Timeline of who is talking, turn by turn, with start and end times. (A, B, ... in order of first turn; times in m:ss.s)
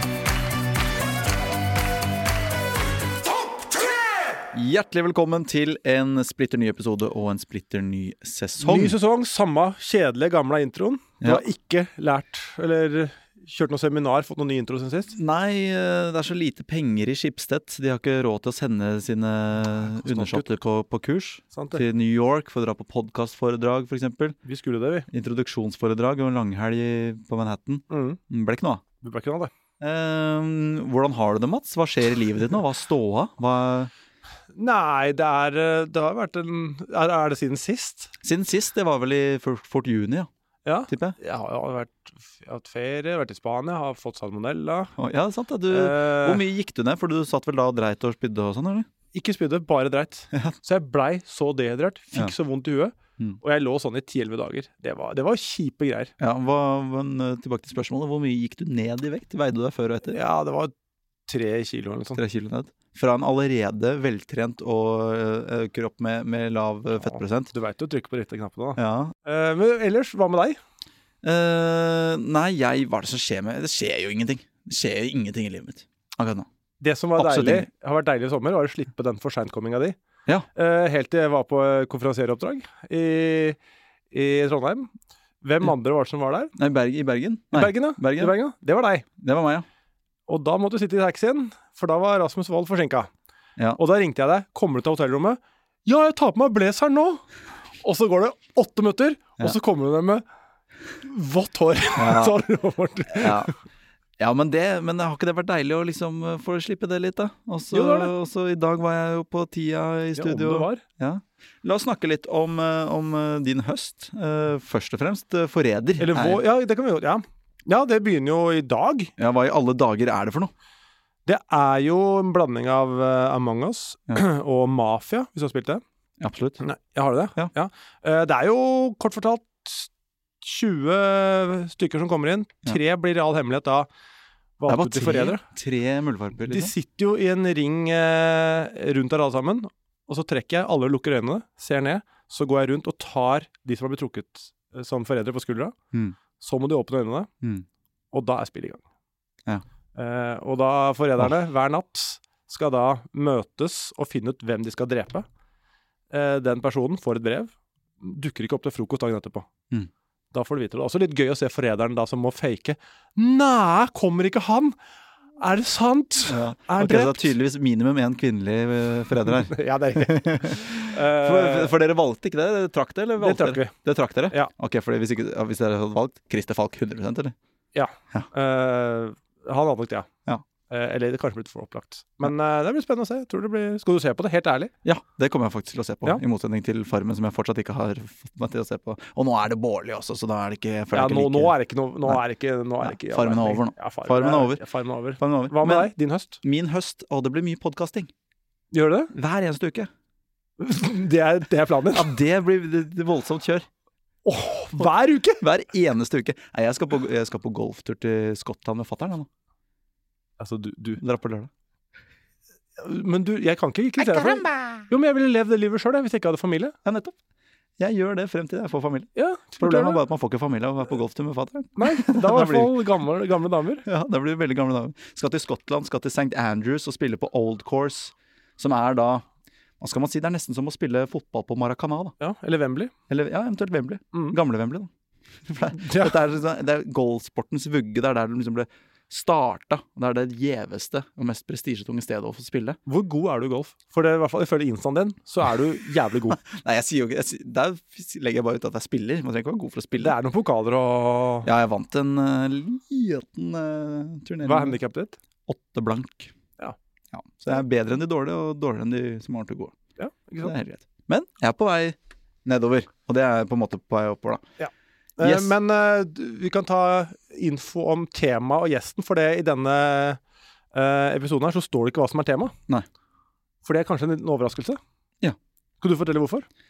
0:04.5-0:09.0 A
0:08.6-0:15.1 B
0:15.1-0:24.4 A
0:19.9-0:20.6 B
0:21.5-0:21.8 B
0:24.4-0:25.1 B
0:25.1-0:28.8 A
0:27.9-0:28.2 B
0:29.0-0:29.5 B
0:29.8-0:33.9 A
0:34.5-0:38.1 B
0:38.2-0:40.3 A
0:40.6-0:44.9 B
0:40.9-0:41.2 A
0:45.0-0:48.9 A
0:45.7-0:46.4 B
0:49.1-0:56.1 B
0:56.2-1:00.2 A
1:00.1-1:00.7 B
1:01.3-1:02.2 B
1:02.1-1:07.5 A
1:07.0-1:10.6 B
1:08.8-1:09.1 A
1:11.2-1:16.4 A
1:16.8-1:20.0 B
1:17.2-1:17.7 A
1:20.5-1:23.6 B
1:24.1-1:24.9 B
1:25.4-1:26.5 B
1:26.5-1:28.3 A
1:27.5-1:29.0 B
1:29.2-1:29.6 A
1:30.3-1:33.1 B
1:33.8-1:37.2 B
1:37.8-1:40.2 B
1:41.0-1:43.5 B
1:42.0-1:42.4 A
1:43.1-1:43.5 A
1:44.2-1:56.4 A
1:47.7-1:48.1 B
1:50.2-1:50.8 B
1:56.0-1:59.1 B
1:59.2-2:00.5 A
2:01.2-2:05.8 B
2:06.2-2:06.6 A
2:06.6-2:09.9 B
2:10.4-2:13.9 B
2:14.6-2:15.4 B
2:14.7-2:16.7 A
2:16.5-2:25.7 B
2:25.9-2:26.2 A
2:26.4-2:27.3 B
2:28.1-2:28.8 B
2:30.0-2:35.2 B
2:36.1-2:39.5 B
2:40.3-2:44.8 B
2:45.4-2:47.3 B
2:46.3-2:57.3 A
2:49.2-2:51.7 B
2:53.2-2:53.7 B
2:57.7-3:00.1 B
3:00.7-3:04.7 B
3:04.8-3:12.2 A
3:10.9-3:16.4 B
3:12.8-3:14.6 A
3:15.2-3:15.9 A
3:16.4-3:18.1 A
3:18.7-3:19.1 B
3:19.1-3:19.9 A
3:20.6-3:22.1 B
3:21.9-3:23.7 A
3:24.2-3:25.4 B
3:24.8-3:29.3 A
3:30.4-3:31.0 B
3:31.0-3:31.5 A
3:32.8-3:36.7 B
3:34.0-3:34.8 A
3:36.8-3:37.1 A
3:37.8-3:42.8 A
3:39.1-3:40.0 B
3:41.8-3:43.8 B
3:43.8-3:49.2 A
3:49.8-3:52.1 A
3:52.2-3:52.9 B
3:53.1-3:54.9 A
3:55.4-4:02.8 A
3:55.7-3:56.2 B
4:02.8-4:06.4 B
4:06.4-4:10.2 A
4:10.0-4:11.5 B
4:11.4-4:14.8 A
4:14.4-4:15.2 B
4:15.5-4:16.3 A
4:17.1-4:19.7 A
4:20.0-4:20.5 B
4:20.4-4:24.4 A
4:24.6-4:30.2 B
4:25.2-4:25.5 A
4:30.7-4:32.5 B
4:33.6-4:34.8 B
4:35.8-4:36.5 B